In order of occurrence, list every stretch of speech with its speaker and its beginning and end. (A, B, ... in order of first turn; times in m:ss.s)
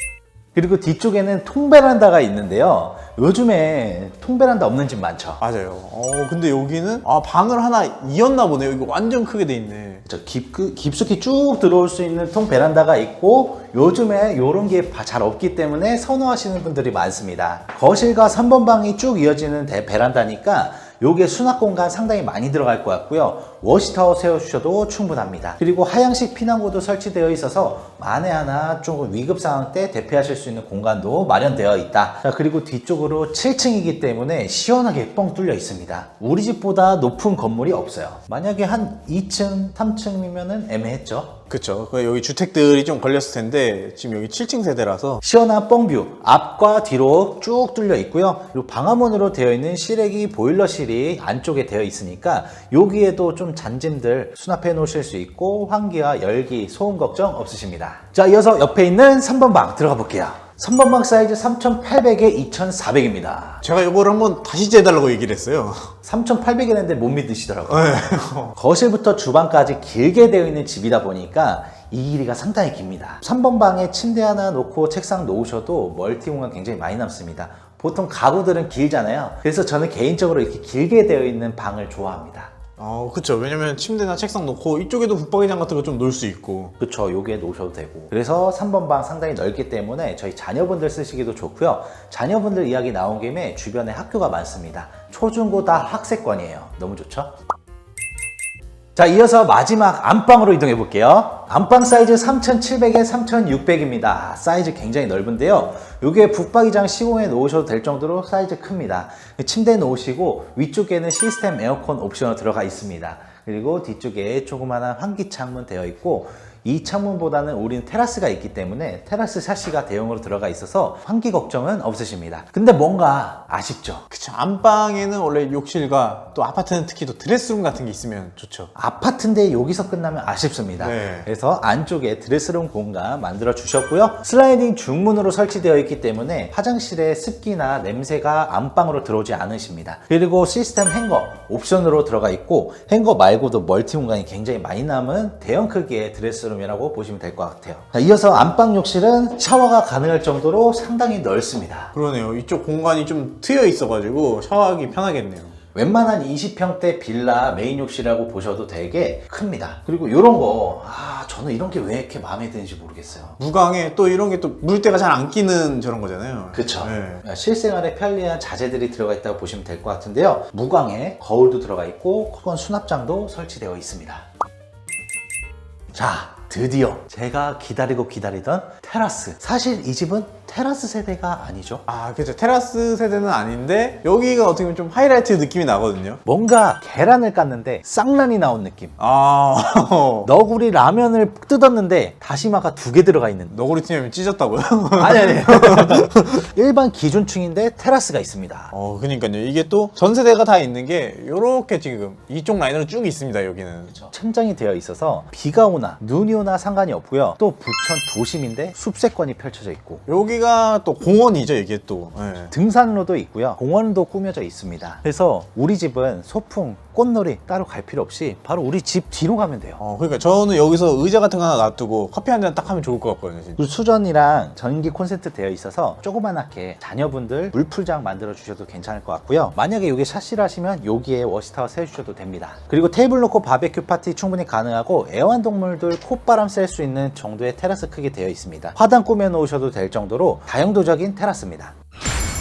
0:00.5-0:05.4 A
0:05.4-0:10.0 B
0:10.1-0:41.4 A
0:41.5-0:45.2 B
0:45.2-1:03.6 A
1:03.6-1:05.9 B
1:06.0-1:22.5 A
1:07.7-1:08.6 B
1:22.8-1:26.7 B
1:26.8-1:37.3 A
1:39.0-2:04.0 A
2:04.1-2:08.7 B
2:08.7-2:31.9 A
2:10.8-2:11.3 B
2:31.9-2:35.5 B
2:35.7-2:43.4 A
2:43.4-2:47.2 B
2:46.5-2:54.2 A
2:55.9-3:01.8 A
3:01.9-3:06.2 B
3:06.2-3:09.0 A
3:09.0-3:10.3 B
3:10.2-3:13.6 A
3:13.5-3:16.4 B
3:15.0-3:18.7 A
3:18.7-3:24.1 B
3:24.0-3:30.0 A
3:30.1-3:32.5 B
3:32.5-3:39.8 A
3:39.8-3:43.6 B
3:43.6-4:01.7 A